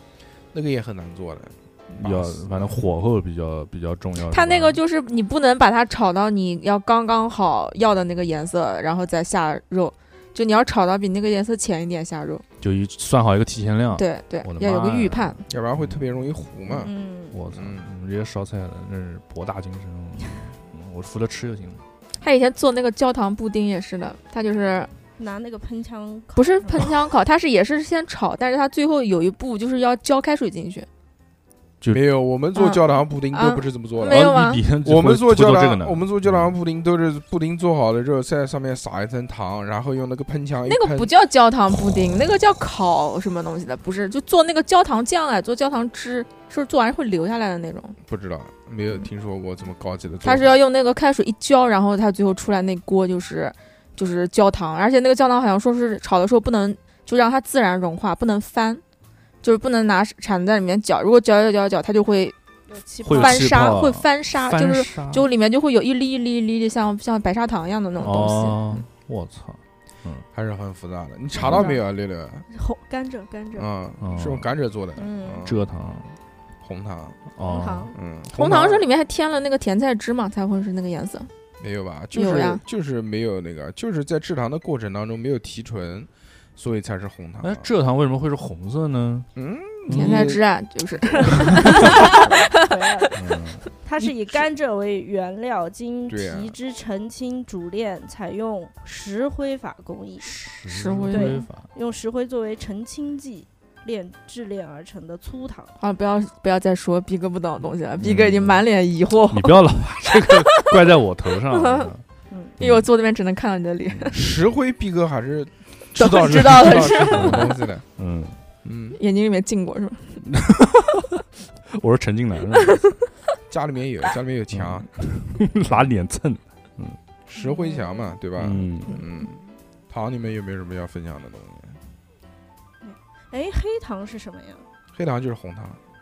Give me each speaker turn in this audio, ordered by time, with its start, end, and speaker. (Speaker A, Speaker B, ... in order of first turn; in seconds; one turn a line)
Speaker A: 0.5-2.8
Speaker B: 2.0-4.8
Speaker C: 4.3-12.4
Speaker B: 12.6-16.0
Speaker C: 13.9-15.4
Speaker A: 15.5-16.9
Speaker B: 16.7-21.8
Speaker D: 16.8-17.4
Speaker A: 17.5-17.9
Speaker C: 22.2-24.9
Speaker D: 25.2-27.0
Speaker C: 26.3-30.9
Speaker A: 31.9-41.1
Speaker C: 32.5-34.6
Speaker B: 34.1-36.5
Speaker C: 40.7-48.0
Speaker B: 41.7-42.3
Speaker A: 48.1-50.5
Speaker C: 50.2-58.8
Speaker C: 59.4-62.3
Speaker D: 62.7-63.7
Speaker B: 63.0-65.3
Speaker C: 63.0-68.7
Speaker B: 68.0-70.2
Speaker A: 70.3-72.5
Speaker D: 71.4-71.8
Speaker D: 72.5-73.7
Speaker A: 73.5-75.7
Speaker B: 74.0-74.5
Speaker D: 75.0-75.5
Speaker B: 75.4-76.1
Speaker A: 76.6-77.2
Speaker B: 77.3-77.9
Speaker D: 77.4-77.9
Speaker A: 77.9-78.8
Speaker C: 78.3-81.3
Speaker A: 81.6-87.7
Speaker C: 82.1-82.6
Speaker B: 87.4-89.3
Speaker A: 89.3-90.4
Speaker B: 89.9-90.4
Speaker C: 89.9-93.1
Speaker D: 91.5-93.1
Speaker B: 93.1-93.6
Speaker D: 93.8-100.3
Speaker A: 96.1-96.5
Speaker B: 100.2-101.7
Speaker C: 100.7-101.4
Speaker D: 101.1-105.7
Speaker C: 105.8-110.8
Speaker B: 108.0-108.6
Speaker B: 109.3-112.0
Speaker C: 111.5-111.9
Speaker D: 112.3-112.5
Speaker B: 112.6-112.9
Speaker C: 112.6-114.3
Speaker A: 114.1-117.8
Speaker C: 116.0-117.6
Speaker B: 116.3-118.4
Speaker A: 118.6-119.0
Speaker C: 118.9-120.2
Speaker B: 120.2-122.9
Speaker A: 123.5-124.9
Speaker B: 124.5-127.0
Speaker A: 127.3-131.8
Speaker D: 127.4-128.1
Speaker B: 128.4-129.0
Speaker D: 132.8-134.7
Speaker A: 134.9-135.8